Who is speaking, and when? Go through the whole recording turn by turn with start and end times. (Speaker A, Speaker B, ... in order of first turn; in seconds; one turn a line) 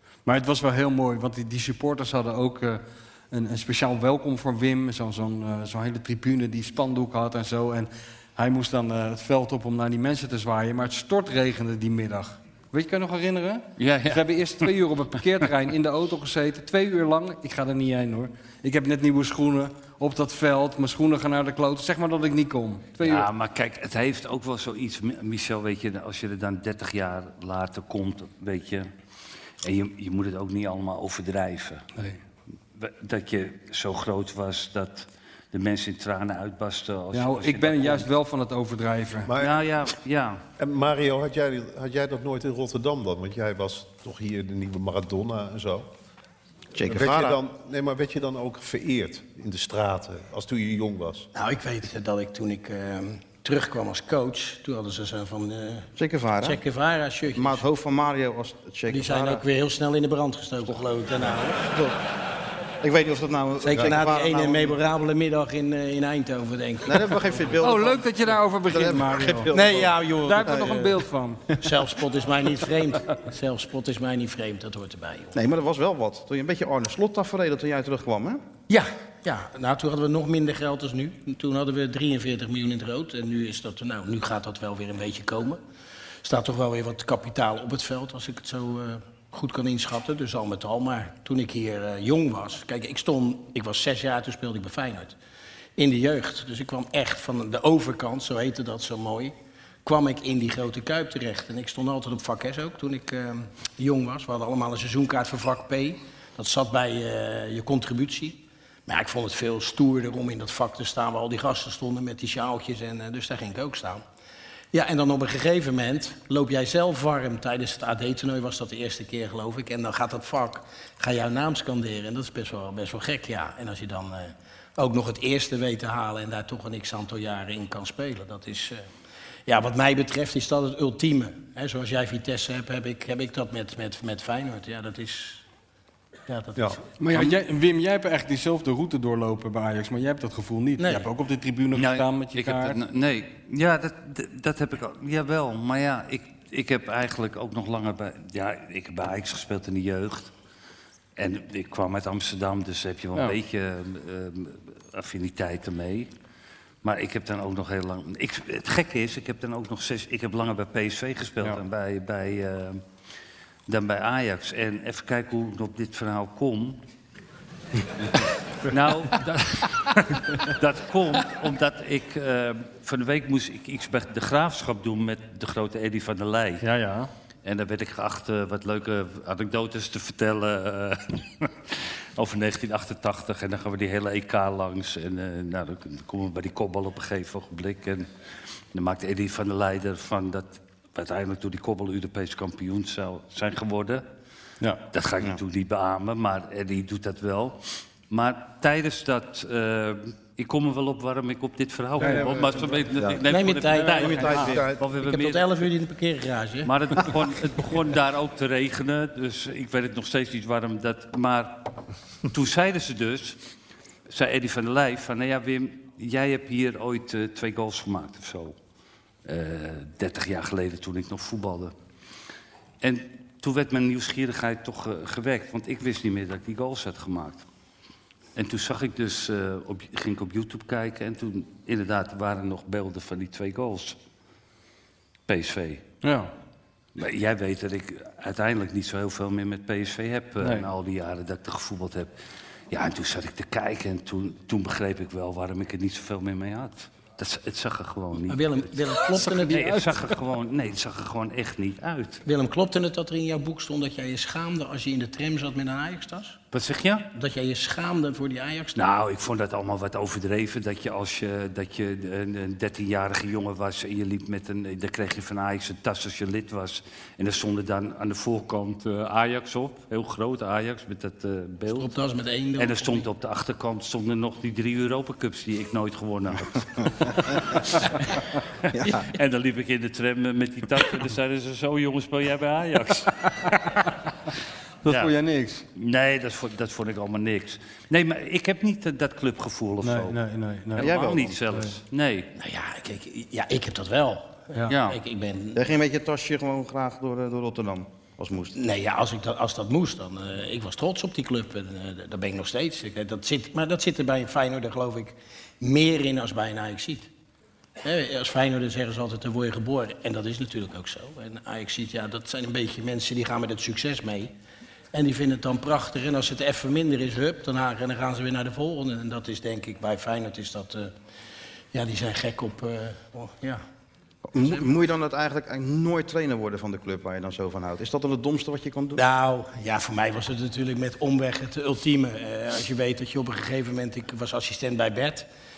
Speaker A: 0.3-23.3
Speaker B: 13.8-14.7
Speaker B: 23.0-28.9
Speaker B: 29.6-31.9
Speaker B: 32.8-38.1
Speaker A: 37.1-39.3
Speaker C: 39.3-39.6
Speaker B: 39.4-40.4
Speaker C: 40.6-45.9
Speaker D: 46.7-47.4
Speaker C: 46.8-51.3
Speaker E: 51.3-55.9
Speaker D: 56.0-56.6
Speaker E: 56.4-57.6
Speaker D: 57.3-59.4
Speaker E: 58.9-61.6
Speaker D: 61.2-62.0
Speaker D: 62.8-64.8
Speaker E: 63.6-67.5
Speaker D: 66.9-71.0
Speaker A: 67.6-69.5
Speaker E: 69.5-70.9
Speaker A: 70.2-71.5
Speaker E: 71.6-75.3
Speaker D: 75.3-78.4
Speaker E: 78.7-85.6
Speaker E: 86.2-95.2
Speaker E: 95.8-99.3
Speaker E: 99.8-114.0
Speaker E: 114.7-128.8
Speaker E: 129.5-135.4
Speaker E: 136.3-136.8
Speaker A: 137.0-142.8
Speaker E: 140.8-141.1
Speaker B: 141.7-150.3
Speaker B: 151.2-156.1
Speaker B: 156.8-162.8
Speaker B: 163.7-166.8
Speaker B: 168.7-176.6
Speaker A: 176.6-177.1
Speaker B: 177.4-188.1
Speaker B: 188.7-194.0
Speaker B: 194.9-205.5
Speaker A: 202.0-202.8
Speaker C: 202.0-202.8
Speaker E: 203.2-206.7
Speaker A: 203.9-204.5
Speaker C: 204.1-204.9
Speaker B: 206.7-211.6
Speaker B: 212.3-213.4
Speaker B: 214.1-218.6
Speaker B: 219.2-221.7
Speaker B: 222.8-227.4
Speaker B: 228.3-234.0
Speaker B: 235.3-235.8
Speaker A: 236.0-236.3
Speaker B: 237.0-242.1
Speaker A: 240.4-240.7
Speaker B: 242.7-252.2
Speaker E: 248.3-249.9
Speaker E: 252.2-256.4
Speaker B: 256.5-257.1
Speaker E: 257.1-258.8
Speaker B: 258.8-271.9
Speaker E: 271.7-273.1
Speaker B: 272.6-283.6
Speaker D: 278.8-279.0
Speaker A: 283.2-283.9
Speaker A: 284.8-285.6
Speaker B: 284.9-285.1
Speaker B: 285.7-290.2
Speaker A: 289.8-291.8
Speaker B: 290.8-292.3
Speaker D: 290.8-291.4
Speaker E: 292.4-295.6
Speaker B: 294.7-295.0
Speaker D: 295.6-298.6
Speaker E: 298.5-307.1
Speaker E: 307.8-314.3
Speaker E: 314.9-320.9
Speaker E: 321.7-323.6
Speaker D: 324.3-329.0
Speaker E: 324.4-324.6
Speaker E: 329.0-335.3